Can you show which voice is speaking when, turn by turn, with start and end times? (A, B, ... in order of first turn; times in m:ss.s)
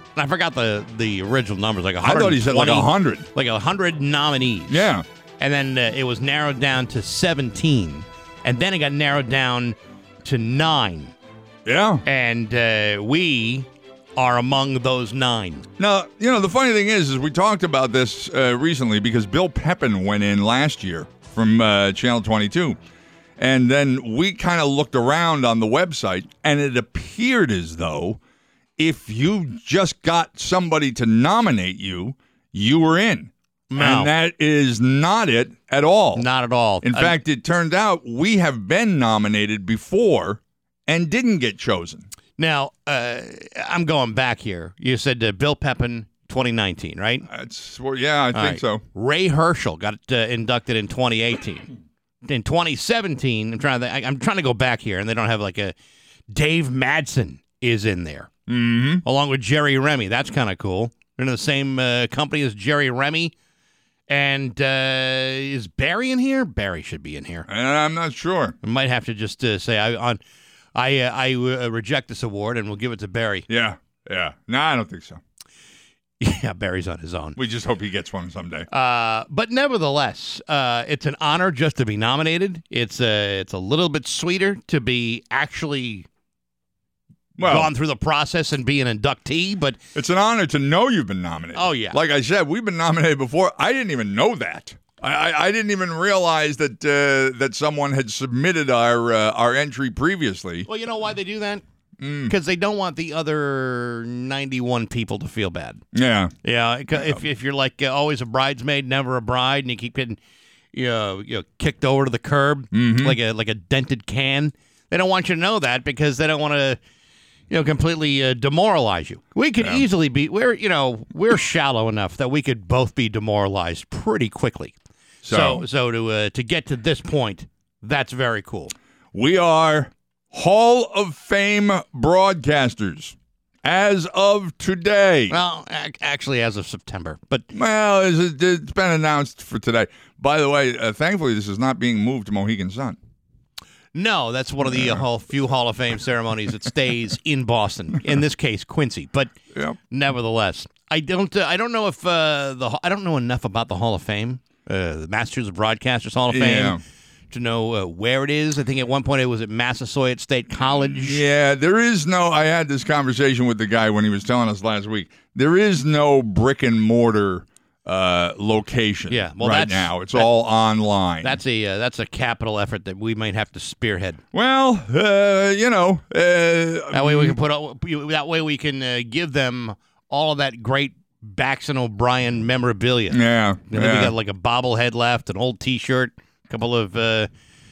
0:00.2-0:11.1 A
0:02.0-0:03.3 B
0:04.7-0:05.0 B
0:11.6-0:12.0 B
0:12.0-0:15.7 A
0:15.8-0:22.8 B
0:23.4-0:28.2 B
0:28.8-0:36.2 B
0:33.7-0:34.1 A
0:36.1-0:37.2 A
0:36.8-0:42.1 B
0:42.4-0:47.3 A
0:47.3-0:48.8 B
0:48.3-0:51.7 A
0:52.2-0:55.7 A
0:56.3-0:58.3 A
0:58.5-0:59.0 B
0:59.0-1:03.3 A
1:04.1-1:07.5 A
1:07.5-1:08.6 B
1:08.6-1:10.2 A
1:10.7-1:13.4 A
1:13.5-1:15.2 B
1:16.2-1:17.4 A
1:17.4-1:18.7 B
1:18.7-1:26.1 A
1:27.4-1:27.7 B
1:27.4-1:29.8 A
1:29.9-1:40.7 B
1:31.5-1:32.0 A
1:40.7-1:41.6 A
1:42.0-1:42.3 B
1:42.3-1:45.8 A
1:45.9-1:46.3 B
1:46.4-1:50.2 A
1:46.9-1:47.2 B
1:50.7-1:56.8 A
1:52.7-1:53.2 B
1:57.5-2:04.8 A
2:05.2-2:05.6 B
2:05.3-2:08.7 A
2:09.1-2:15.4 B
2:15.3-2:17.5 A
2:17.5-2:23.0 B
2:23.9-2:29.3 A
2:24.6-2:25.0 B
2:29.9-2:36.8 A
2:36.3-2:36.8 B
2:37.3-2:41.2 A
2:40.8-2:51.4 B
2:49.1-2:50.3 A
2:51.2-2:54.2 A
2:54.3-2:57.4 B
2:56.9-3:07.3 A
3:03.1-3:04.1 B